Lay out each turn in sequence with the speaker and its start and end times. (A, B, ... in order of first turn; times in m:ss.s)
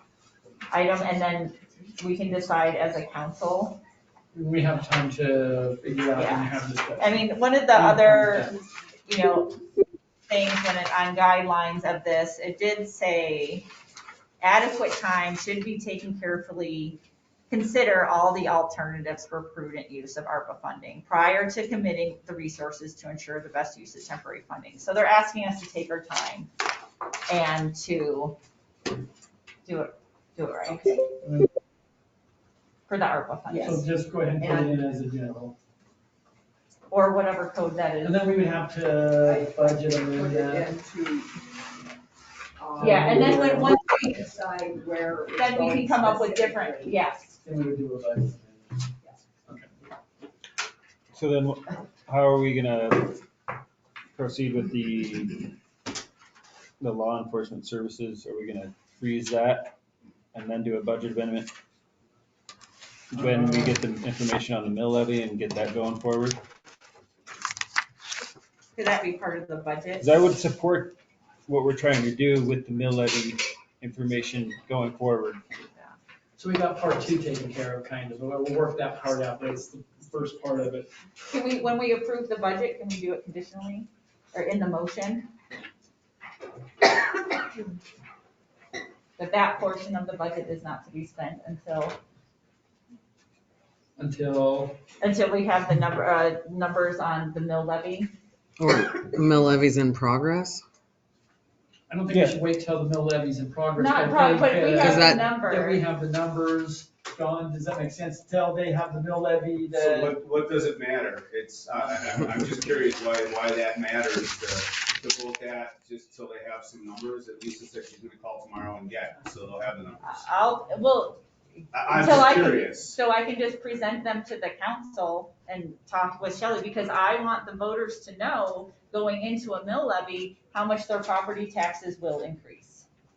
0:00.7-0:03.8 A
0:04.3-0:07.2 B
0:06.1-0:08.6 A
0:07.8-0:08.5 B
0:09.1-0:09.6 A
0:10.3-0:13.7 A
0:14.4-0:17.0 A
0:17.5-0:26.5 A
0:27.3-0:28.4 A
0:29.7-0:31.0 A
0:30.7-0:31.0 C
0:31.2-0:31.5 B
0:32.9-0:33.8 A
0:33.5-0:33.8 C
0:33.6-0:35.6 B
0:34.4-0:34.7 C
0:36.9-0:38.3 A
0:38.0-0:40.6 B
0:39.2-0:41.4 C
0:42.6-0:47.0 C
0:42.8-0:44.0 A
0:42.8-0:43.6 B
0:45.4-0:47.4 A
0:47.4-0:48.8 B
0:52.1-0:53.2 D
0:54.2-0:55.3 D
0:56.8-0:59.4 D
1:00.3-1:01.5 D
1:03.2-1:03.7 B
1:04.3-1:06.1 D
1:08.8-1:10.2 A
1:10.0-1:10.7 D
1:11.5-1:15.4 D
1:16.4-1:20.9 B
1:21.3-1:25.3 A
1:29.2-1:32.0 A
1:34.0-1:34.8 B
1:35.0-1:38.1 A
1:38.6-1:40.6 E
1:41.9-1:50.1 B
1:43.8-1:45.8 A
1:44.8-1:45.3 E
1:49.7-2:00.3 F
2:00.0-2:01.2 A
2:01.7-2:03.0 F
2:01.8-2:12.8 A